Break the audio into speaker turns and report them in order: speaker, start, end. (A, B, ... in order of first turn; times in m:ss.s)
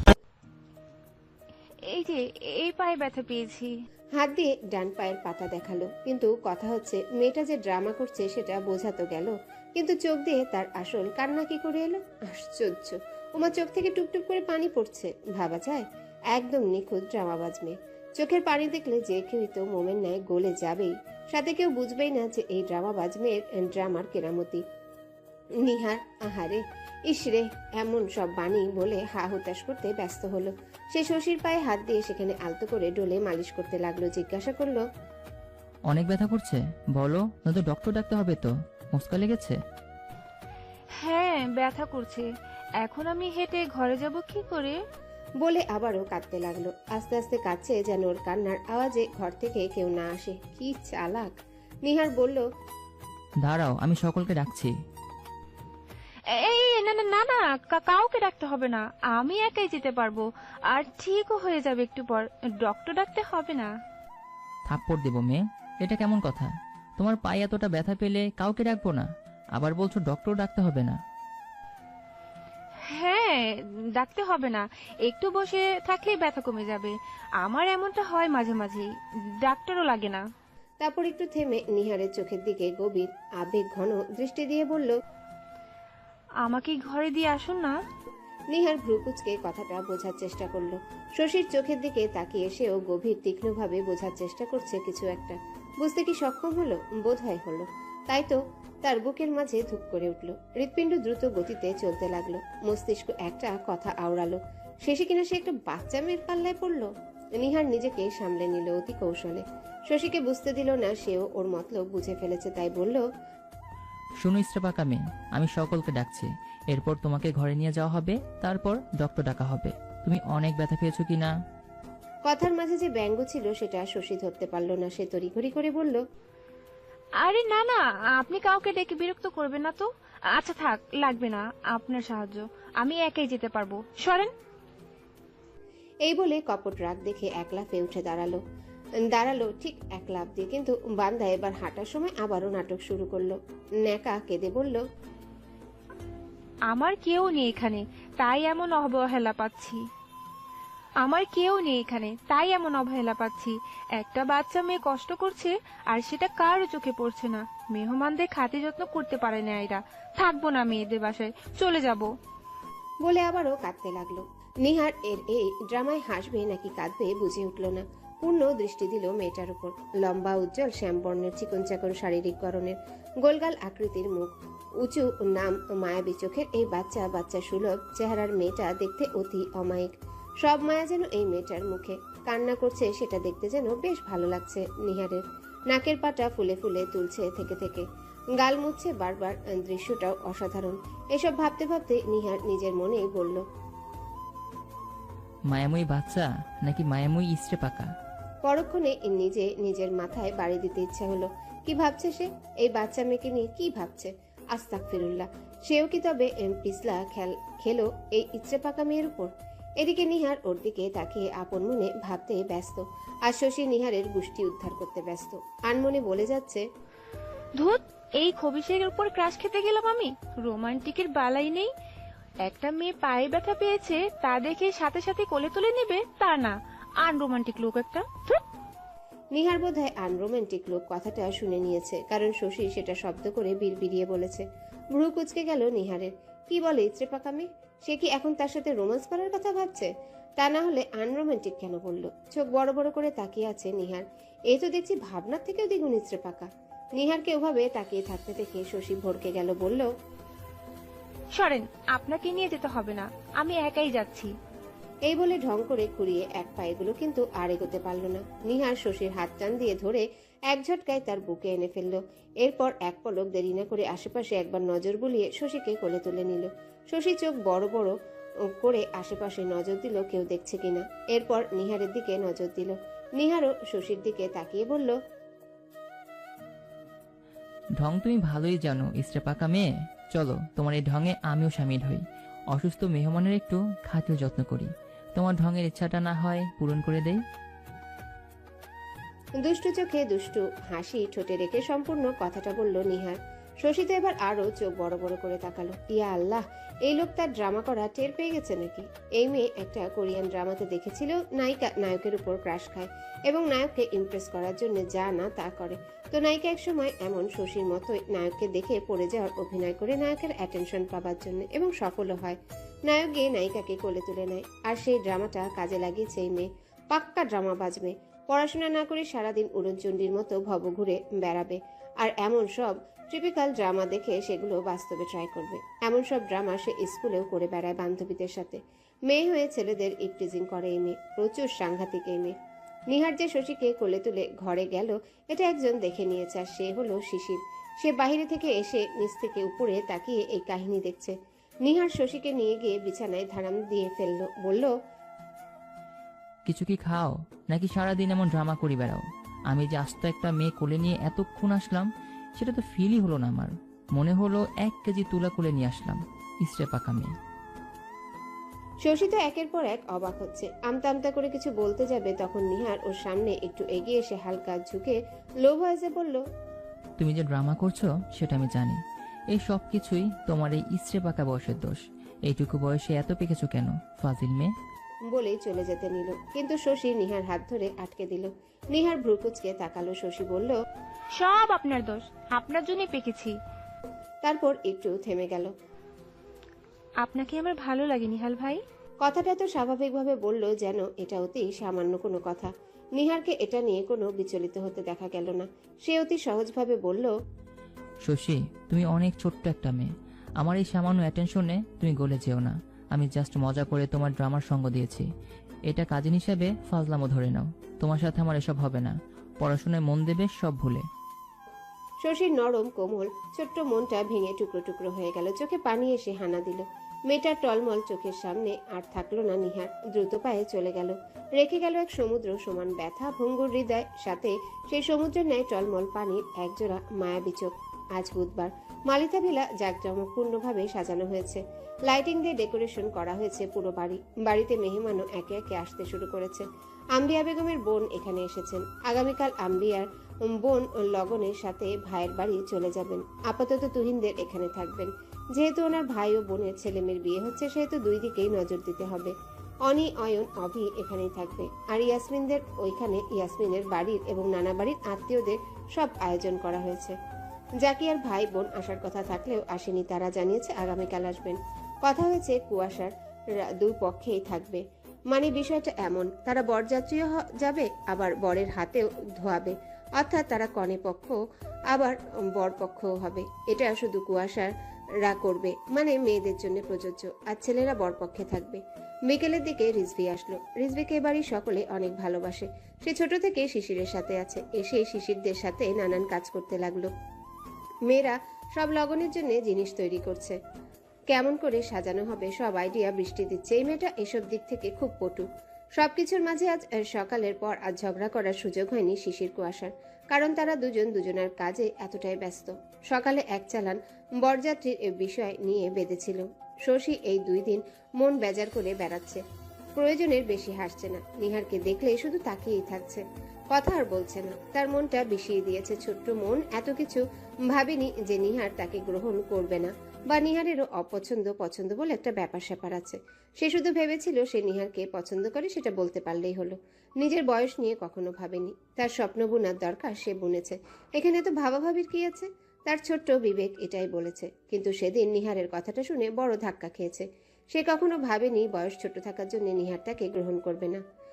0:01.9-0:03.7 A
0:04.1-0:24.6 B
0:25.6-0:34.8 B
0:35.9-0:39.6 C
0:41.0-0:44.8 A
0:45.4-0:52.4 B
0:53.4-0:54.7 C
0:56.3-1:03.7 A
1:04.7-1:11.0 C
1:12.8-1:20.2 A
1:20.8-1:25.0 B
1:26.4-1:27.7 A
1:28.5-1:53.0 B
1:54.2-2:01.3 C
2:02.3-2:06.0 B
2:07.2-2:14.3 A
2:16.0-2:18.4 B
2:19.0-2:24.8 B
2:26.7-2:29.8 A
2:31.0-2:42.1 A
2:43.0-3:13.5 B
3:15.5-3:17.9 C
3:18.4-3:36.7 B
3:37.6-3:41.7 A
3:42.4-3:48.4 A
3:49.3-4:09.9 B
4:11.4-4:14.3 A
4:15.1-4:35.0 B
4:37.8-4:47.2 C
4:49.4-5:32.4 B
5:32.9-5:44.7 B
5:46.5-5:57.1 C
5:58.8-6:06.2 B
6:07.0-6:08.8 C
6:09.3-6:14.5 C
6:15.1-6:20.6 B
6:21.2-6:23.4 A
6:24.2-6:25.5 B
6:27.0-6:28.6 A
6:29.0-6:37.1 B
6:38.0-6:39.9 C
6:40.4-6:45.0 C
6:45.7-6:50.8 C
6:52.0-7:37.0 B
7:37.6-7:51.2 B
7:51.7-8:06.9 B
8:07.9-8:10.4 B
8:11.1-8:29.2 B
8:29.7-9:00.8 B